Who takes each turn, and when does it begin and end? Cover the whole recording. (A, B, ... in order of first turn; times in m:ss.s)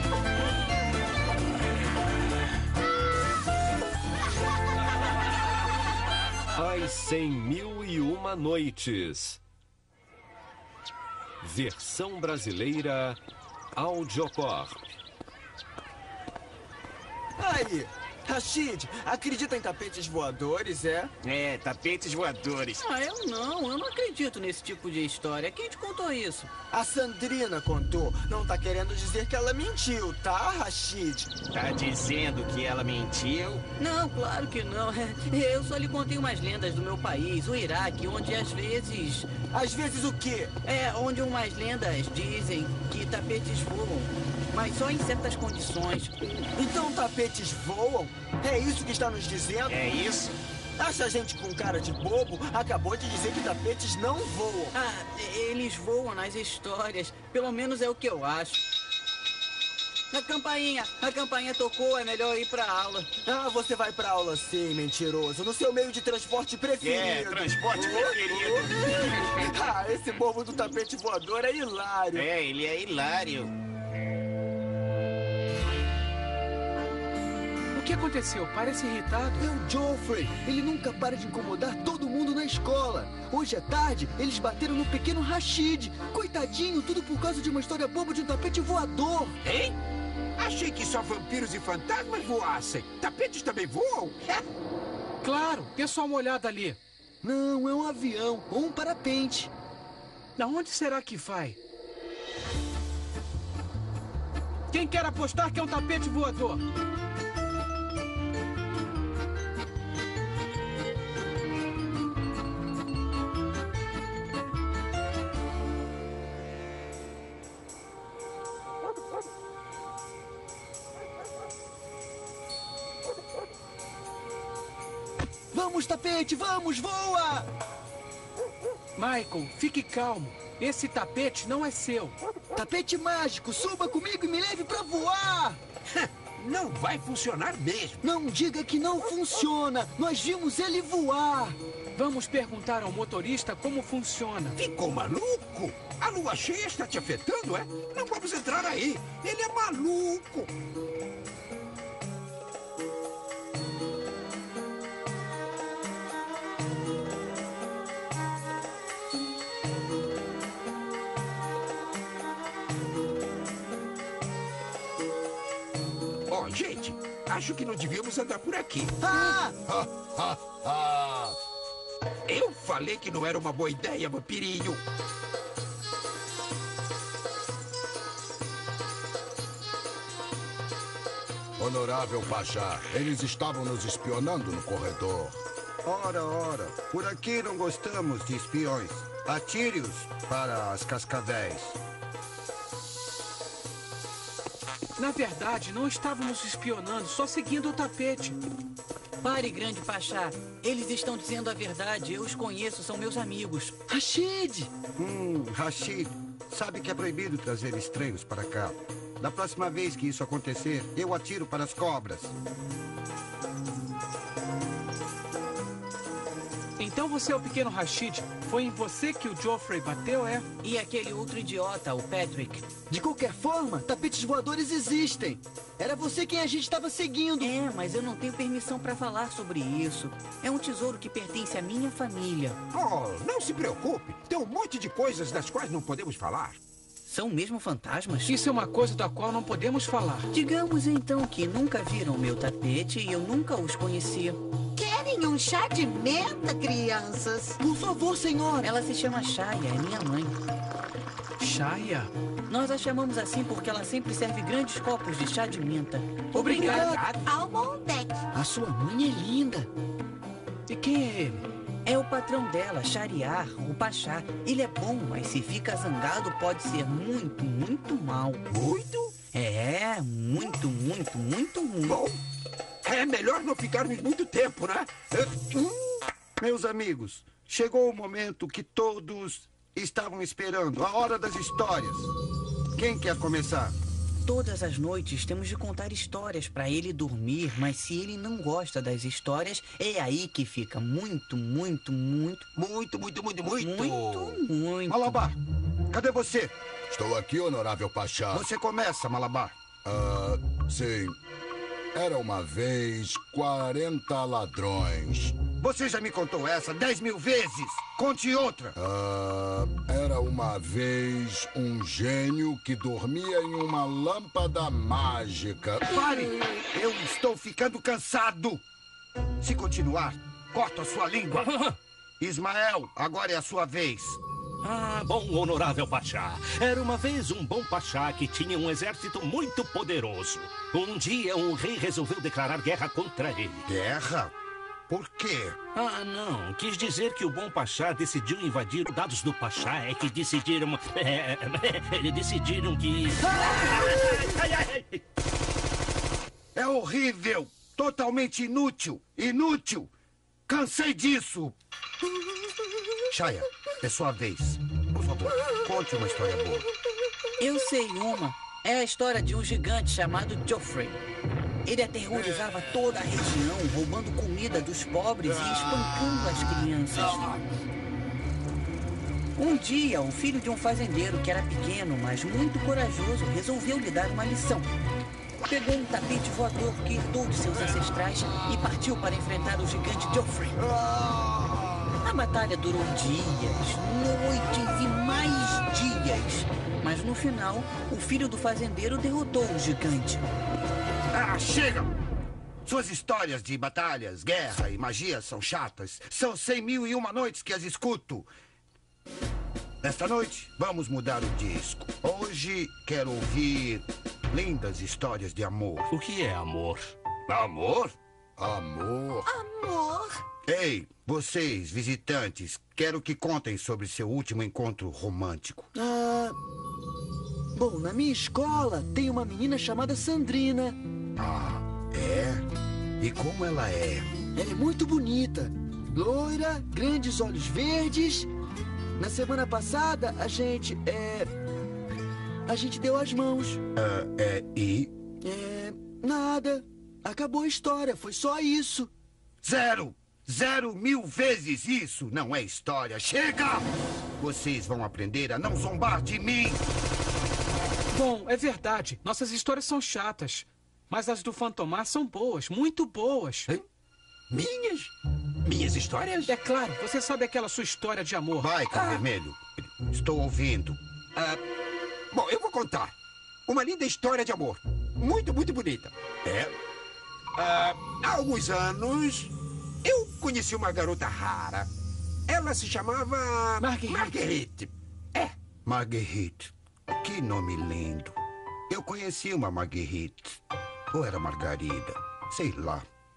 0:06.6-0:09.4 A
0:11.4-0:13.2 A
0:13.8-0:14.9 A
0:17.4-0:21.1 B
0:21.2-0:22.8 C
0:22.7-0:26.5 D
0:26.7-0:31.4 B
0:31.4-0:33.6 C
0:33.8-0:39.3 D
0:39.5-0:40.5 B
0:40.6-0:46.2 D
0:46.6-0:49.8 B
0:49.7-0:50.3 C
0:50.8-0:54.7 B
0:54.7-0:58.6 D
1:00.1-1:03.1 D
1:03.2-1:08.0 B
1:06.8-1:08.9 C
1:09.2-1:12.3 B
1:12.1-1:13.5 C
1:17.7-1:19.4 E
1:19.4-1:29.4 F
1:29.4-1:29.8 G
1:30.4-1:34.4 G
1:35.2-1:36.8 E
1:37.2-1:39.5 F
1:40.4-1:41.6 E
1:44.7-1:46.6 E
2:05.5-2:07.5 F
2:09.0-2:12.2 E
2:12.6-2:15.6 F
2:15.9-2:18.0 G
2:18.0-2:21.6 F
2:22.0-2:24.6 E
2:24.6-2:30.5 G
2:46.3-2:49.0 G
2:49.0-2:49.6 F
2:49.7-2:51.4 H
2:52.3-2:54.8 G
3:01.6-3:05.4 H
3:05.8-3:11.8 I
3:15.0-3:18.4 E
3:19.2-3:23.8 D
3:23.9-3:24.7 F
3:25.0-3:32.4 I
3:36.8-3:40.5 E
3:40.6-3:42.6 D
3:42.9-3:47.5 F
3:47.4-3:52.6 D
3:52.7-3:56.6 G
3:57.1-3:58.4 D
3:58.3-4:00.3 E
4:00.3-4:04.4 D
4:04.8-4:07.6 J
4:07.6-4:08.7 F
4:08.6-4:10.4 D
4:11.4-4:12.1 E
4:12.5-4:16.6 D
4:16.4-4:17.0 E
4:16.4-4:17.4 G
4:16.6-4:17.0 F
4:17.2-4:18.2 J
4:18.3-4:19.7 F
4:20.7-4:21.5 E
4:21.9-4:28.4 D
4:28.5-4:29.1 G
4:29.3-4:32.0 D
4:31.8-4:32.2 G
4:32.8-4:34.9 G
4:35.1-4:35.7 I
4:36.4-4:42.1 I
4:42.8-4:43.8 I
4:44.2-4:52.5 D
4:52.6-4:54.4 G
4:53.6-4:55.2 D
4:54.9-4:55.4 I
4:55.9-4:56.6 I
4:56.9-4:58.5 H
4:58.3-4:59.6 I
4:59.8-5:01.2 H
5:01.9-5:05.4 H
5:05.6-5:08.8 I
5:08.8-5:15.9 H
5:15.9-5:18.6 I
5:19.4-5:21.5 I
5:21.3-5:21.8 K
5:22.2-5:24.2 I
5:24.6-5:33.6 K
5:33.7-5:34.3 I
5:34.9-5:35.6 I
5:35.7-5:45.0 K
5:46.6-5:49.9 I
5:50.5-5:51.6 I
5:53.1-5:56.7 I
5:57.4-6:01.0 D
6:01.6-6:07.4 D
6:09.4-6:14.7 D
6:15.5-6:20.6 D
6:22.0-6:30.3 D
6:31.1-6:32.0 I
6:32.6-6:38.3 I
6:39.8-6:45.9 I
6:45.9-6:47.0 K
6:47.3-6:47.9 I
6:48.4-6:49.3 H
6:49.3-6:50.2 J
6:50.5-6:55.7 I
6:55.8-6:56.4 F
6:57.6-7:00.8 F
7:01.2-7:02.4 I
7:03.0-7:04.1 I
7:04.4-7:08.3 F
7:09.0-7:11.3 F
7:12.5-7:13.6 F
7:13.7-7:14.9 I
7:15.2-7:18.9 F
7:19.4-7:23.7 I
7:24.2-7:26.6 I
7:27.9-7:33.5 E
7:34.3-7:34.9 G
7:35.4-7:36.3 G
7:36.3-7:39.0 E
7:38.4-7:40.8 I
7:42.1-7:42.9 G
7:43.5-7:45.9 G
7:46.2-7:46.5 I
7:47.4-7:49.3 G
7:49.8-7:51.7 G
7:52.3-7:55.3 G
7:53.6-7:54.1 E
7:55.6-7:58.2 I
7:58.7-8:00.4 I
8:00.9-8:02.9 I